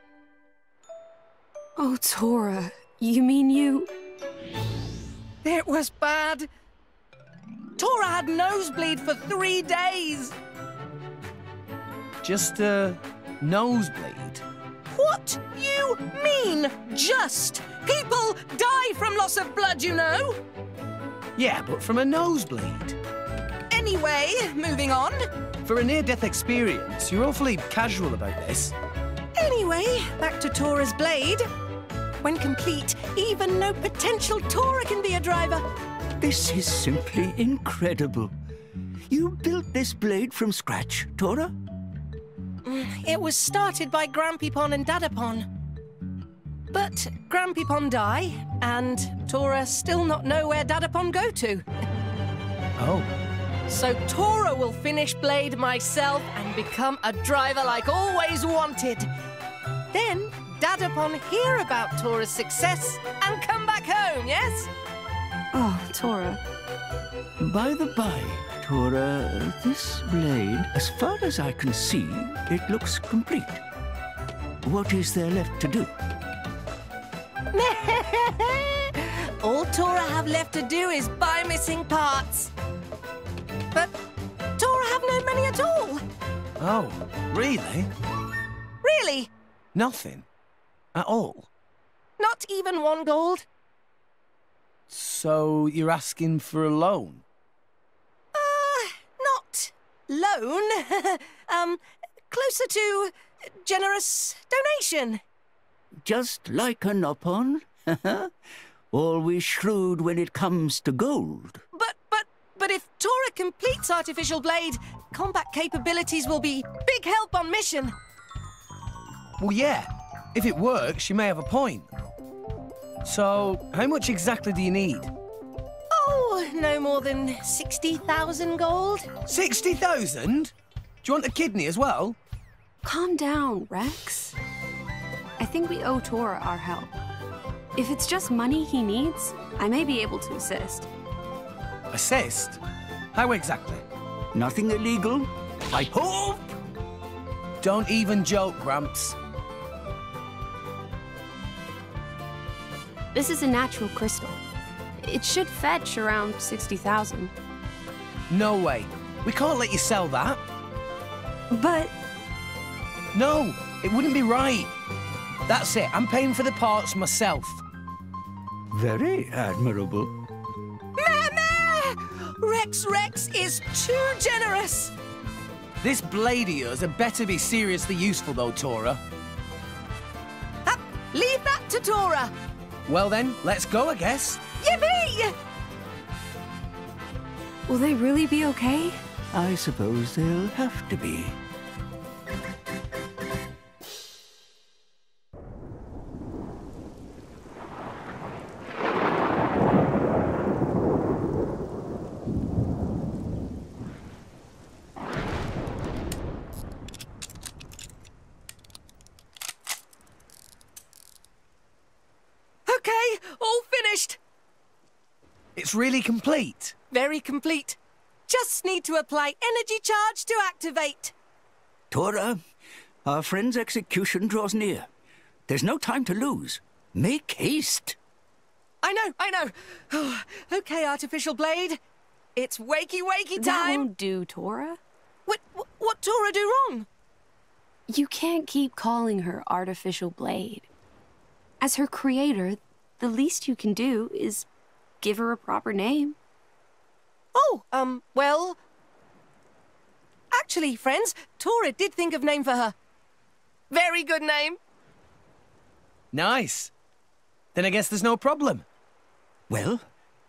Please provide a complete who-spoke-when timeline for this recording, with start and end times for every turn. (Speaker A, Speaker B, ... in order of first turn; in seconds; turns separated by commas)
Speaker A: 1.8-3.9, Speaker B: 5.4-6.5, Speaker B: 7.8-10.3, Speaker C: 12.2-14.4, Speaker B: 14.9-20.4, Speaker C: 21.4-23.0, Speaker B: 23.7-25.2, Speaker C: 25.7-28.7, Speaker B: 29.4-31.4, Speaker B: 32.2-35.6, Speaker D: 36.2-38.3, Speaker D: 39.1-41.5, Speaker B: 42.6-45.5, Speaker B: 46.7-51.6, Speaker C: 52.8-53.1, Speaker B: 53.7-59.1, Speaker B: 59.9-64.7, Speaker A: 65.5-66.4, Speaker D: 67.4-73.6, Speaker D: 74.6-75.9, Speaker B: 77.5-82.5, Speaker B: 84.6-86.0, Speaker C: 86.6-87.9, Speaker B: 88.8-89.3, Speaker C: 89.8-90.3, Speaker C: 91.0-91.5, Speaker B: 92.2-93.5, Speaker C: 94.9-97.2, Speaker B: 98.3-105.2, Speaker D: 106.0-108.3, Speaker D: 108.9-111.6, Speaker B: 111.7-118.0, Speaker C: 119.4-121.9, Speaker C: 123.0-125.1, Speaker B: 125.9-129.2, Speaker C: 129.3-130.5, Speaker C: 131.0-132.2, Speaker A: 132.8-134.3, Speaker A: 135.4-136.9, Speaker A: 137.8-140.9, Speaker C: 141.9-142.6, Speaker C: 143.1-143.8, Speaker D: 144.3-146.6, Speaker C: 147.6-149.2, Speaker A: 153.1-154.4, Speaker A: 155.0-157.3, Speaker C: 158.3-160.4, Speaker A: 161.5-161.9, Speaker C: 163.1-164.7, Speaker C: 165.5-167.6, Speaker D: 168.7-170.1, Speaker B: 171.0-174.9, Speaker C: 175.8-179.0, Speaker B: 180.7-182.3, Speaker C: 182.9-184.4, Speaker B: 184.6-185.3, Speaker A: 187.7-189.0, Speaker D: 189.3-191.4, Speaker B: 212.7-214.2, Speaker C: 215.6-216.8, Speaker B: 216.9-221.1, Speaker D: 221.9-222.4, Speaker D: 223.0-224.9, Speaker D: 225.5-228.0, Speaker B: 228.8-231.8, Speaker B: 232.4-233.9, Speaker A: 233.4-234.8, Speaker B: 235.3-236.9, Speaker A: 237.9-240.7, Speaker A: 241.6-244.5, Speaker A: 245.0-246.2, Speaker B: 247.3-248.6, Speaker B: 250.3-252.8, Speaker B: 253.7-254.6, Speaker C: 256.1-256.7, Speaker C: 257.6-258.6, Speaker D: 259.5-259.9